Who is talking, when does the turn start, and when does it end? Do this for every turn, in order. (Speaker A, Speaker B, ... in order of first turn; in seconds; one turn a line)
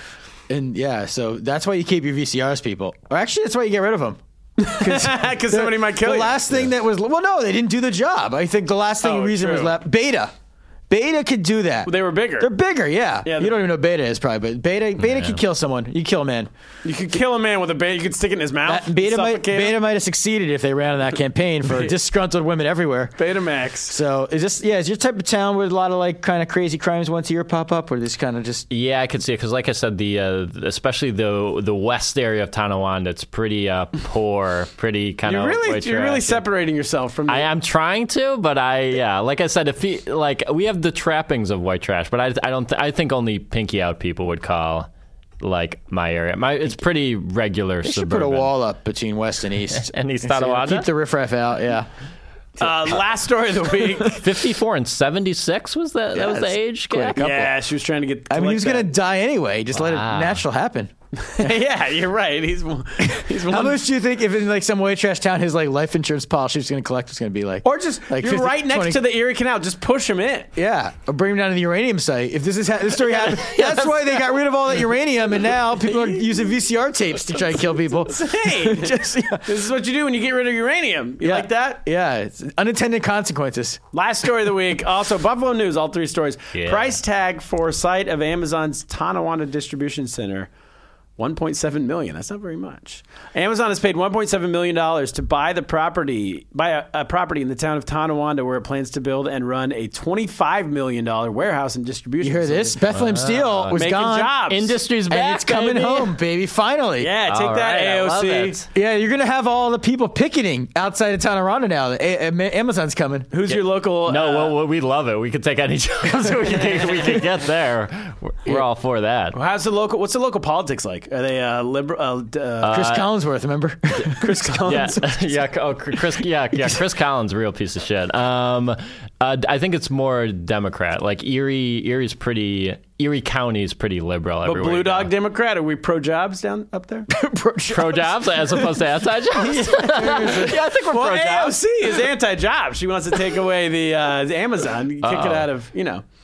Speaker A: 0.5-10.3
Speaker B: 4.6-6.4
Speaker B: 9.0-9.8
Speaker A: 10.9-16.5
Speaker B: 11.9-12.5
Speaker B: 13.2-13.6
Speaker C: 15.0-15.4
Speaker B: 16.8-19.8
Speaker A: 18.6-23.1
Speaker B: 23.2-24.0
Speaker A: 23.9-28.7
Speaker C: 28.7-36.4
Speaker B: 35.2-37.5
Speaker C: 37.3-44.9
Speaker C: 45.4-48.5
Speaker A: 47.9-51.9
Speaker C: 49.7-50.9
Speaker B: 52.6-54.2
Speaker C: 54.0-57.5
Speaker A: 56.1-57.5
Speaker B: 57.2-58.9
Speaker A: 58.3-61.6
Speaker C: 59.7-60.4
Speaker B: 61.2-63.8
Speaker A: 63.0-69.0
Speaker B: 67.6-70.5
Speaker A: 70.6-79.5
Speaker B: 73.5-73.8
Speaker B: 75.9-76.2
Speaker B: 78.0-81.8
Speaker A: 81.2-83.8
Speaker B: 83.9-90.5
Speaker C: 86.5-87.0
Speaker B: 91.2-102.8
Speaker A: 102.2-104.4
Speaker C: 102.9-103.8
Speaker B: 103.7-104.7
Speaker C: 104.5-106.2
Speaker A: 105.1-107.1
Speaker B: 107.0-108.6
Speaker C: 107.3-108.7
Speaker A: 108.8-113.3
Speaker B: 113.3-114.6
Speaker C: 113.5-119.4
Speaker B: 116.4-117.2
Speaker B: 119.3-122.8
Speaker C: 122.6-123.0
Speaker A: 122.7-124.4
Speaker B: 124.2-125.4
Speaker C: 124.6-135.1
Speaker B: 134.4-137.1
Speaker A: 137.1-140.6
Speaker C: 137.7-141.6
Speaker B: 140.1-146.0
Speaker C: 145.0-145.5